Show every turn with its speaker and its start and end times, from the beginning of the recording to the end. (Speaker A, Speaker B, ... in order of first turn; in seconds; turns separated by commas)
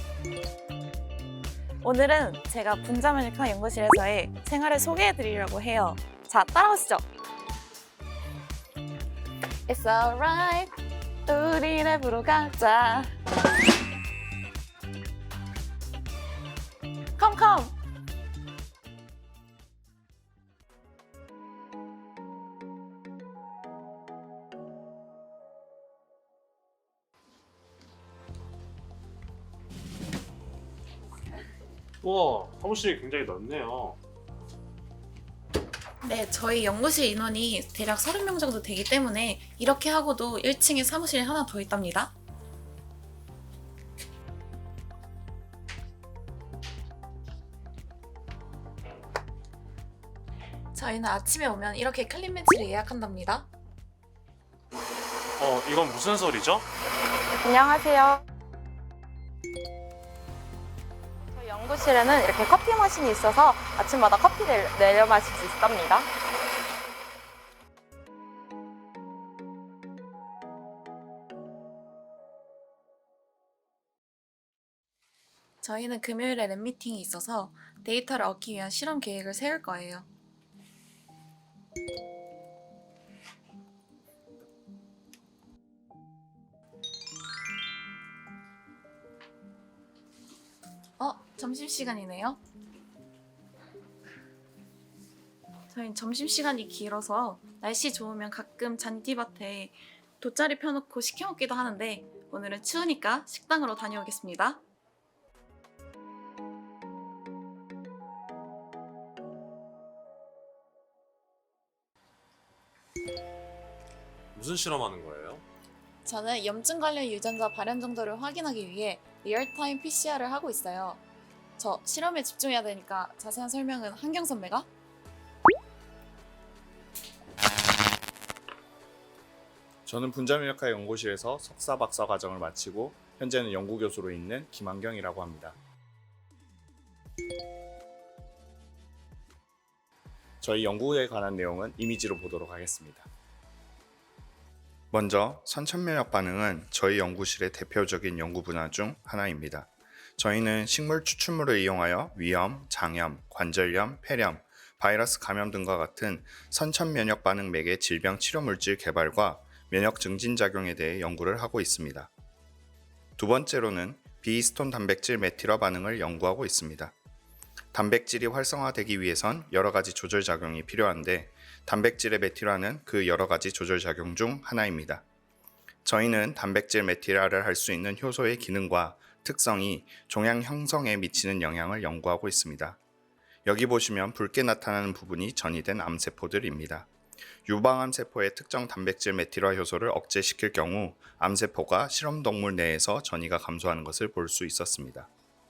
Speaker A: 1.8-7.0, Speaker A: 9.7-10.7, Speaker A: 11.3-13.1, Speaker A: 17.2-17.8, Speaker B: 32.0-34.0, Speaker A: 36.0-42.1, Speaker A: 50.7-53.5, Speaker B: 55.4-56.7, Speaker C: 57.5-57.8, Speaker C: 61.7-62.3, Speaker A: 62.3-63.7, Speaker C: 64.4-65.6, Speaker A: 75.6-80.1, Speaker A: 91.0-92.4, Speaker A: 95.7-104.6, Speaker B: 114.3-115.4, Speaker A: 116.0-121.0, Speaker A: 121.6-124.7, Speaker D: 129.9-135.6, Speaker D: 140.4-143.1, Speaker D: 144.9-162.1, Speaker D: 163.2-166.9, Speaker D: 167.7-175.0, Speaker D: 175.8-182.8, Speaker D: 183.5-186.9, Speaker D: 187.4-195.1